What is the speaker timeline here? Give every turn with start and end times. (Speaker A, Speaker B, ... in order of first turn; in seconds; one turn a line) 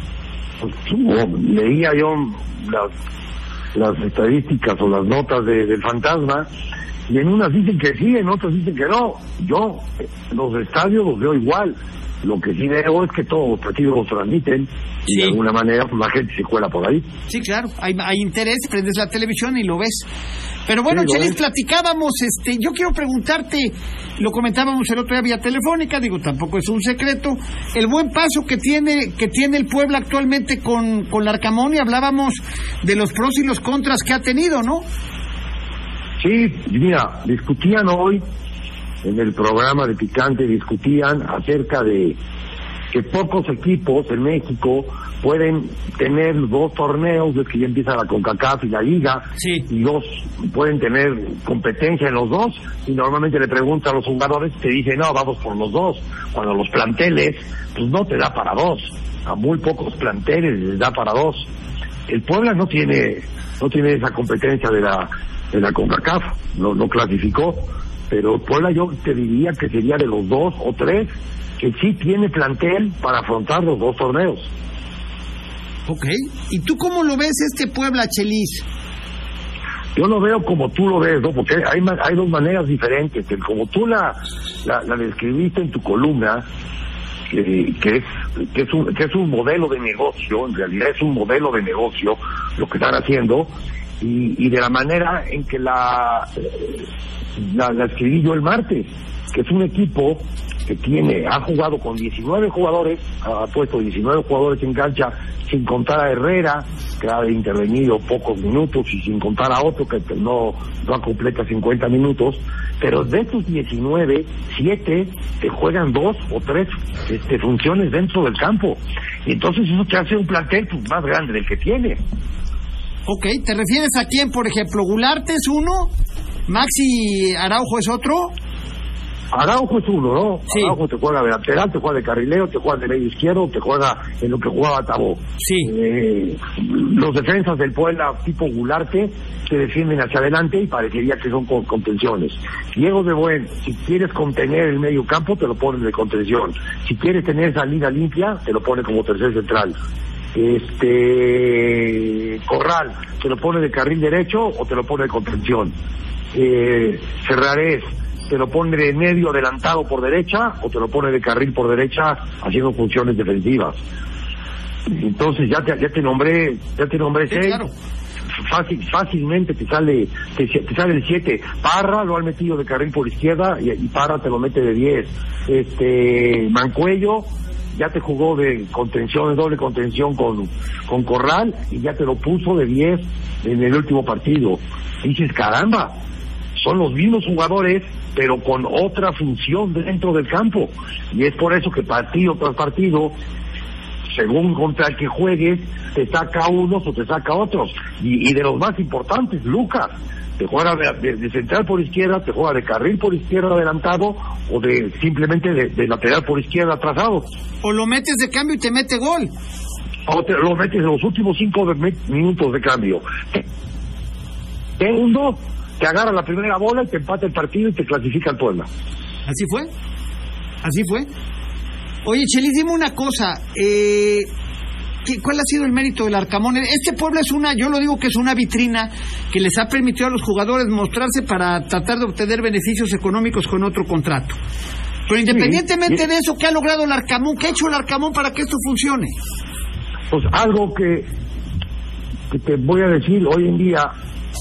Speaker A: 0.6-2.9
Speaker A: 3.7-6.5
Speaker A: 7.1-17.1
Speaker B: 15.1-15.4
Speaker B: 17.3-20.1
Speaker B: 20.7-34.8
Speaker A: 20.9-21.4
Speaker A: 36.2-38.2
Speaker A: 39.0-42.2
Speaker A: 42.9-61.5
Speaker B: 49.4-49.7
Speaker A: 62.1-74.5
Speaker B: 75.9-78.6
Speaker A: 80.0-86.5
Speaker A: 87.3-96.8
Speaker A: 97.4-122.0
Speaker B: 123.1-125.9
Speaker B: 126.5-128.3
Speaker A: 129.3-149.7
Speaker B: 130.5-130.8
Speaker B: 135.4-135.7
Speaker A: 150.3-155.7
Speaker A: 156.3-163.8
Speaker A: 164.9-167.6
Speaker B: 167.3-167.7
Speaker A: 168.4-185.9
Speaker A: 186.6-193.1
Speaker A: 194.1-207.3
Speaker B: 207.6-209.3
Speaker A: 210.1-213.4
Speaker A: 214.8-218.7
Speaker B: 219.2-219.7
Speaker B: 220.6-221.1
Speaker B: 222.0-224.3
Speaker B: 225.0-234.4
Speaker B: 235.1-239.1
Speaker A: 235.3-236.0
Speaker A: 240.1-241.1
Speaker A: 242.3-243.9